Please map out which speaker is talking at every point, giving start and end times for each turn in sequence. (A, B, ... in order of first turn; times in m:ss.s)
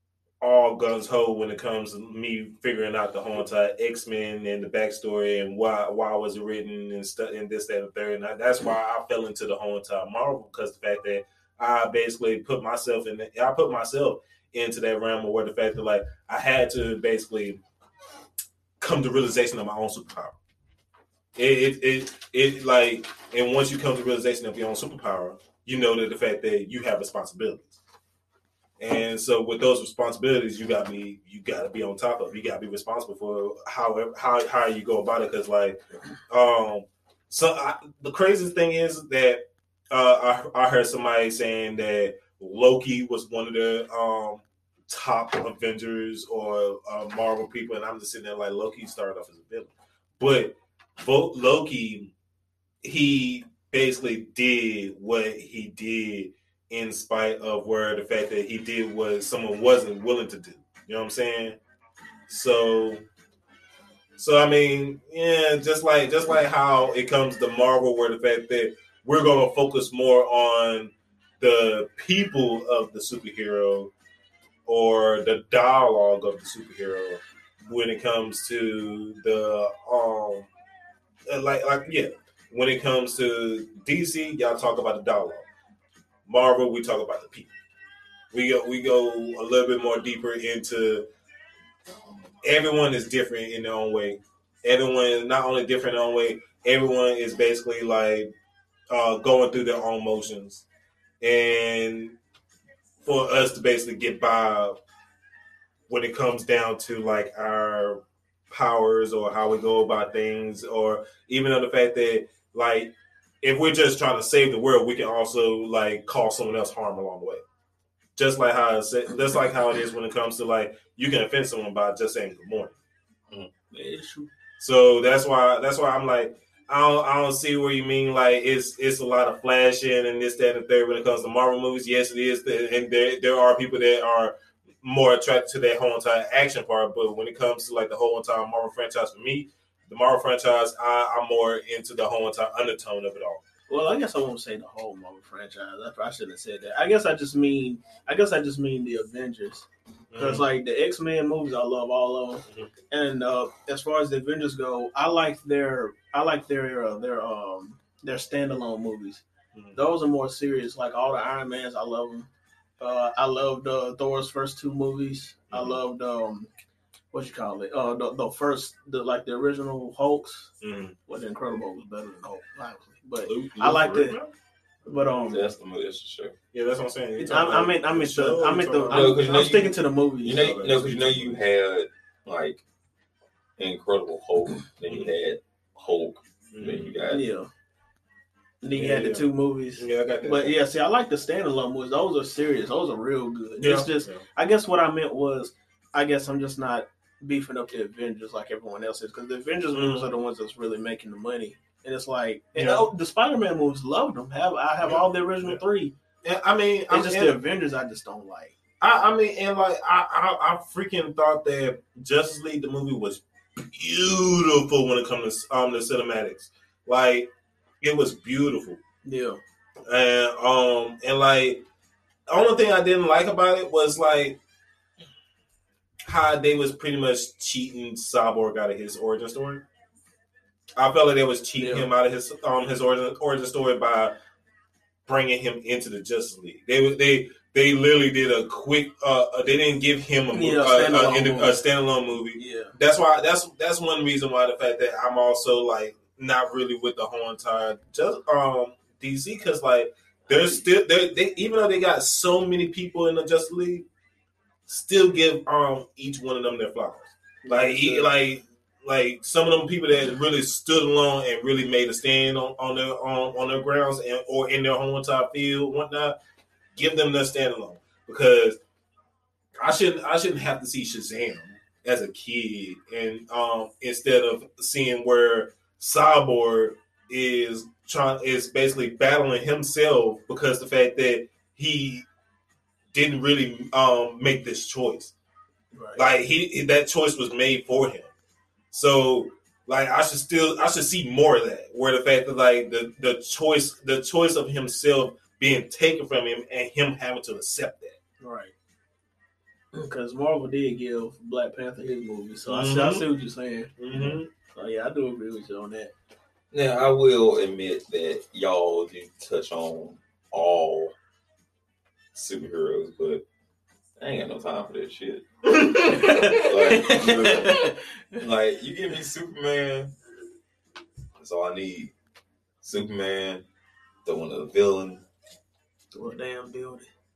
0:00.4-0:17.6 A
0:18.8-0:20.4 A
0:21.4-0:27.8 A
0:28.8-0:52.1 A
0:52.8-1:01.6 A
1:02.3-1:03.0 A
1:04.2-1:13.9 A
1:14.7-1:20.5 A
1:21.3-1:25.5 A
1:26.3-1:27.5 A
1:28.3-1:31.0 A
1:32.4-1:38.3 A
1:38.9-1:40.6 A
1:41.2-1:42.2 A
1:43.0-1:44.8 A
1:45.9-1:57.4 A
1:58.2-2:02.7 A
2:03.7-2:04.3 B
2:04.6-2:23.4 A
2:23.7-2:39.2 B
2:30.1-2:30.4 A
2:39.5-2:39.8 A
2:39.7-2:42.3 B
2:42.8-2:46.5 B
2:45.5-2:45.8 A
2:47.1-2:50.5 B
2:50.6-2:51.0 A
2:51.1-2:54.2 B
2:53.2-2:54.3 A
2:54.8-2:55.4 B
2:54.9-2:55.2 A
2:55.3-2:56.3 C
2:56.5-2:59.6 A
2:57.2-3:00.6 B
2:58.9-3:02.6 C
3:00.3-3:01.4 A
3:03.6-3:07.2 C
3:04.9-3:05.1 A
3:06.5-3:06.9 A
3:07.1-3:07.5 B
3:08.6-3:25.9 B
3:08.8-3:10.6 A
3:13.6-3:14.2 A
3:19.7-3:20.1 A
3:22.5-3:22.9 A
3:24.8-3:25.6 A
3:26.2-3:27.3 A
3:26.9-3:28.6 B
3:28.8-3:38.8 A
3:39.0-3:39.4 B
3:39.9-3:41.6 A
3:42.3-3:44.4 A
3:46.0-3:49.6 A
3:50.8-3:54.1 A
3:51.6-3:51.9 B
3:55.1-4:13.8 A
4:00.3-4:01.6 B
4:02.4-4:02.7 B
4:14.7-4:26.2 A
4:17.4-4:18.1 B
4:26.8-4:28.6 A
4:29.6-4:42.0 A
4:42.9-4:45.1 A
4:45.7-4:46.0 B
4:46.0-4:48.1 A
4:48.7-4:58.0 A
4:58.2-4:58.5 B
4:59.7-5:05.9 B
5:02.4-5:03.0 A
5:03.8-5:04.3 A
5:06.5-5:10.9 C
5:12.1-5:13.2 C
5:14.0-5:15.2 C
5:15.5-5:16.6 A
5:15.8-5:18.2 B
5:15.9-5:19.9 C
5:21.2-5:21.9 C
5:22.6-5:23.4 C
5:24.0-5:25.0 C
5:25.9-5:26.9 B